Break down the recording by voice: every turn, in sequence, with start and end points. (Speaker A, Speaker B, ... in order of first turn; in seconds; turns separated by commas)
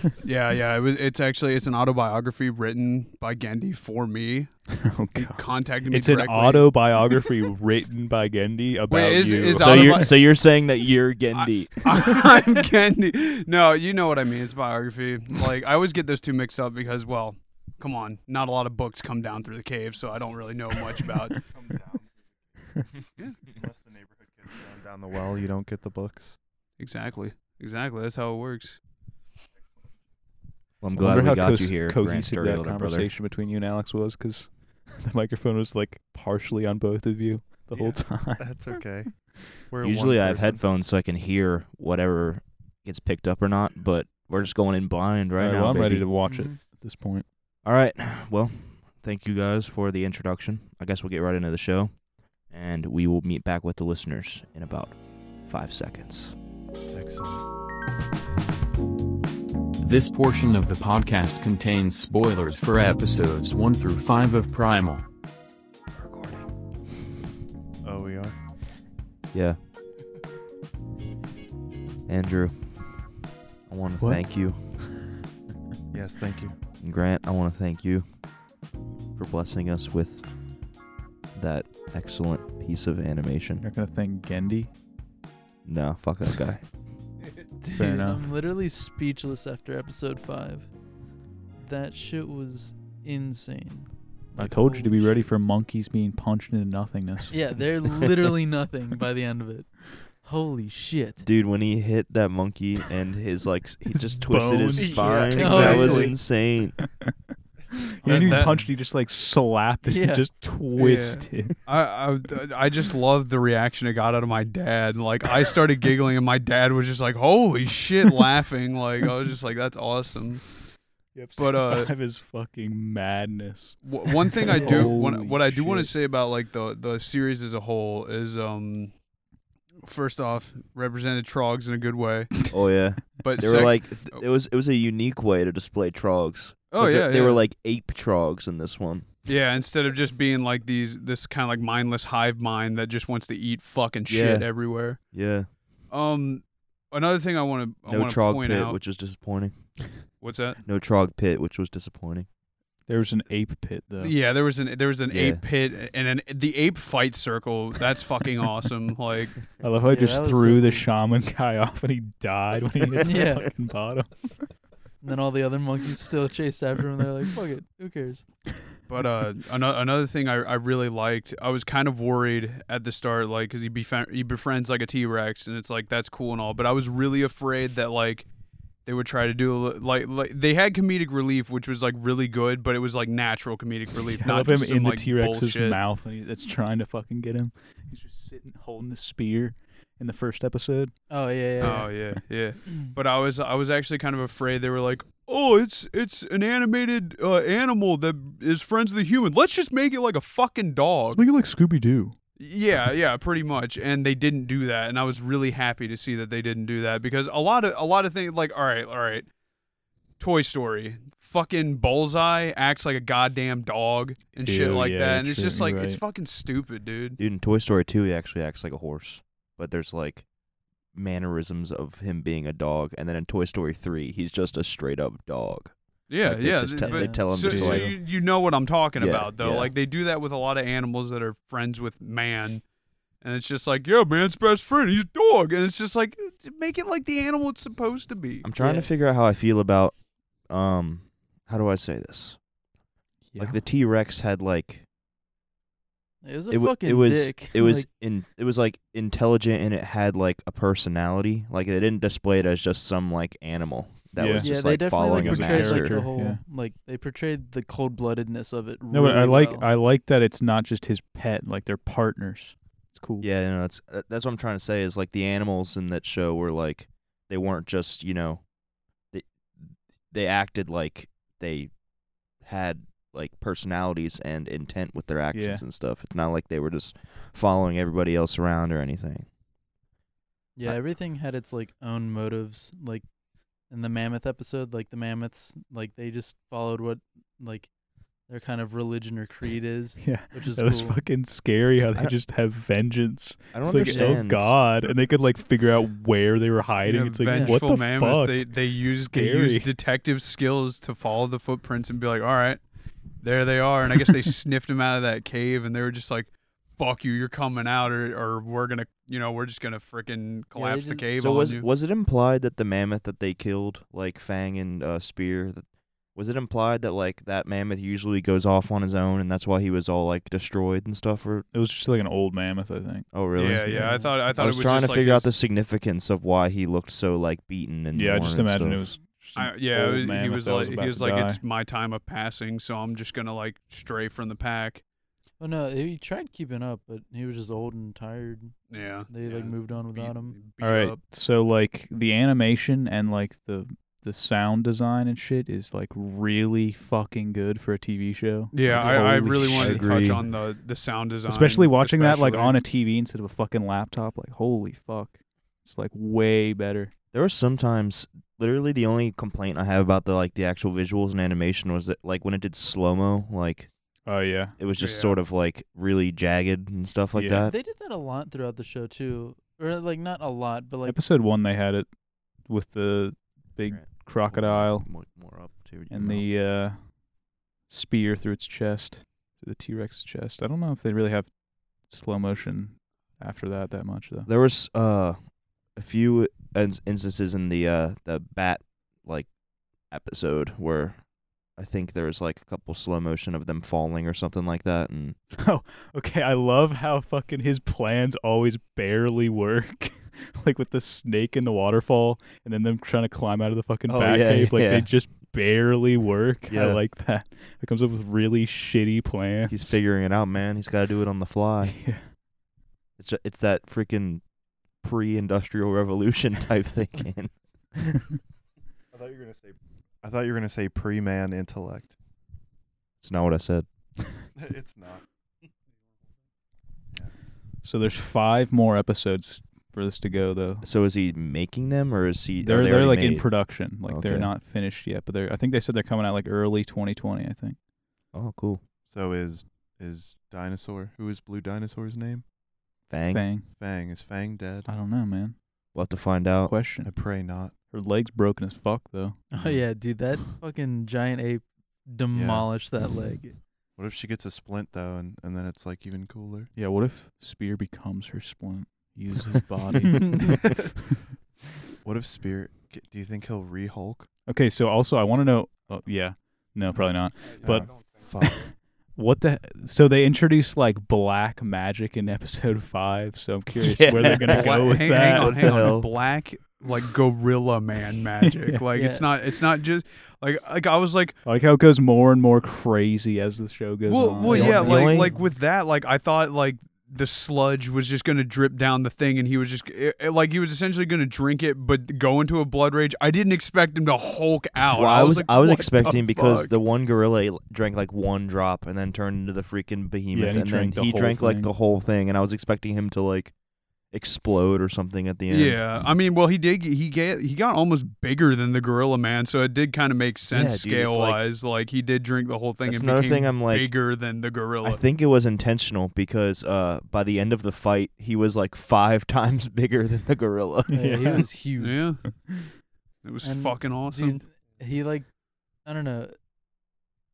Speaker A: 0.2-7.2, Speaker B: 4.7-10.1, Speaker A: 8.9-10.6, Speaker C: 9.6-12.2, Speaker A: 11.3-21.5, Speaker D: 21.5-22.1, Speaker A: 23.2-23.4, Speaker D: 23.4-26.4, Speaker A: 26.8-28.8, Speaker C: 30.8-33.1, Speaker B: 31.0-38.6, Speaker D: 37.7-40.6, Speaker C: 39.8-46.1, Speaker B: 45.4-47.2, Speaker E: 46.2-46.6, Speaker C: 47.6-56.4, Speaker D: 56.9-57.4, Speaker F: 59.8-65.0, Speaker C: 66.0-66.5, Speaker D: 67.8-68.3, Speaker C: 69.3-69.6, Speaker C: 72.1-75.1, Speaker B: 74.0-74.2, Speaker D: 75.9-76.5, Speaker C: 76.8-78.0, Speaker C: 79.2-80.3, Speaker C: 81.3-83.7, Speaker B: 83.6-84.7, Speaker C: 85.6-86.7, Speaker E: 87.6-90.7, Speaker B: 87.7-88.3, Speaker E: 91.6-95.3, Speaker B: 94.3-98.3, Speaker E: 97.3-101.2, Speaker C: 101.2-106.9, Speaker B: 103.9-106.2, Speaker D: 105.0-106.1, Speaker E: 105.2-106.2, Speaker B: 108.0-111.6, Speaker A: 108.0-108.7, Speaker E: 109.8-110.3, Speaker A: 110.8-120.5, Speaker B: 121.1-125.9, Speaker A: 121.4-121.9, Speaker A: 123.8-128.9, Speaker A: 129.8-132.5, Speaker C: 132.5-139.1, Speaker A: 133.2-134.2, Speaker A: 136.7-137.4, Speaker A: 139.2-145.2, Speaker C: 144.1-145.5, Speaker A: 145.9-148.8, Speaker C: 147.9-149.9, Speaker A: 150.2-150.6, Speaker C: 150.6-152.3, Speaker B: 152.9-154.2, Speaker A: 154.0-159.5, Speaker C: 155.1-155.4, Speaker B: 159.6-164.5, Speaker E: 159.8-160.9, Speaker E: 163.0-163.4, Speaker E: 165.0-168.2, Speaker A: 168.9-178.3, Speaker A: 178.8-185.8, Speaker B: 184.2-190.9, Speaker E: 191.1-191.9, Speaker A: 191.6-201.2, Speaker B: 201.1-202.1, Speaker A: 202.4-209.3, Speaker A: 210.2-217.2, Speaker B: 214.4-216.0, Speaker C: 217.2-220.3, Speaker C: 220.9-228.1, Speaker A: 226.1-232.6, Speaker E: 226.8-227.2, Speaker B: 227.4-227.9, Speaker C: 228.9-229.7, Speaker A: 233.2-238.5, Speaker C: 238.4-242.4, Speaker E: 238.6-238.9, Speaker B: 243.3-243.6, Speaker C: 243.3-244.8, Speaker E: 246.2-247.9, Speaker C: 246.5-256.0, Speaker B: 254.2-256.4, Speaker E: 254.4-259.7, Speaker B: 258.9-263.3, Speaker C: 263.2-268.5, Speaker C: 269.1-271.7, Speaker C: 272.3-279.3, Speaker B: 275.3-275.6, Speaker E: 280.6-283.1, Speaker E: 283.7-287.7, Speaker E: 288.3-291.0, Speaker B: 290.0-299.7, Speaker C: 293.5-294.6, Speaker E: 293.8-294.2, Speaker A: 296.8-302.6, Speaker E: 297.3-297.6, Speaker A: 303.2-311.6, Speaker E: 310.5-311.0, Speaker C: 311.1-321.4, Speaker B: 321.5-323.1, Speaker C: 323.1-323.6, Speaker A: 323.4-325.3, Speaker B: 323.6-324.1, Speaker E: 323.7-324.1, Speaker C: 324.4-328.9, Speaker B: 327.9-331.4, Speaker A: 329.4-334.8, Speaker E: 335.4-338.6, Speaker A: 338.7-341.0, Speaker E: 339.1-340.4, Speaker B: 340.6-350.2, Speaker A: 348.5-352.6, Speaker C: 348.7-350.2, Speaker B: 351.3-356.9, Speaker C: 357.1-363.7, Speaker B: 364.1-364.6, Speaker C: 364.6-367.5, Speaker A: 364.8-365.2, Speaker B: 367.1-367.5, Speaker E: 367.4-371.0, Speaker B: 370.8-374.9, Speaker C: 373.6-376.3, Speaker B: 375.9-376.9, Speaker B: 377.7-384.3, Speaker C: 384.3-389.3, Speaker C: 389.9-391.0, Speaker C: 391.6-395.2, Speaker B: 395.4-409.8, Speaker C: 403.9-405.1, Speaker C: 406.5-406.8, Speaker C: 409.5-411.9, Speaker B: 411.6-412.1, Speaker C: 413.0-414.2, Speaker C: 414.8-418.0, Speaker D: 418.9-421.9, Speaker C: 423.0-423.7, Speaker D: 424.4-425.0, Speaker B: 427.6-430.6, Speaker C: 430.6-434.3, Speaker B: 432.4-437.6, Speaker C: 438.1-438.6, Speaker D: 438.9-442.2, Speaker C: 442.9-443.2, Speaker B: 443.0-443.5, Speaker D: 443.5-444.7, Speaker B: 444.7-445.4, Speaker C: 445.7-446.6, Speaker B: 446.3-446.9, Speaker D: 446.8-447.5, Speaker B: 447.7-449.2, Speaker E: 449.3-453.4, Speaker D: 452.1-452.5, Speaker D: 453.8-456.5, Speaker B: 456.5-460.5, Speaker D: 461.8-464.1, Speaker B: 464.3-475.7, Speaker D: 467.4-468.5, Speaker C: 473.6-475.9, Speaker A: 474.3-481.2, Speaker B: 478.3-478.6, Speaker E: 478.7-479.0, Speaker B: 481.2-485.1, Speaker A: 483.9-496.5, Speaker E: 484.2-484.9, Speaker C: 484.3-485.1, Speaker C: 494.7-503.3, Speaker B: 500.1-501.5, Speaker C: 503.9-505.6, Speaker A: 505.3-514.8, Speaker C: 510.3-511.2, Speaker C: 512.6-513.7, Speaker C: 514.6-520.9, Speaker E: 520.7-522.0, Speaker B: 520.7-521.4, Speaker A: 521.6-522.1, Speaker B: 522.0-522.5, Speaker A: 523.0-524.2, Speaker E: 523.2-526.1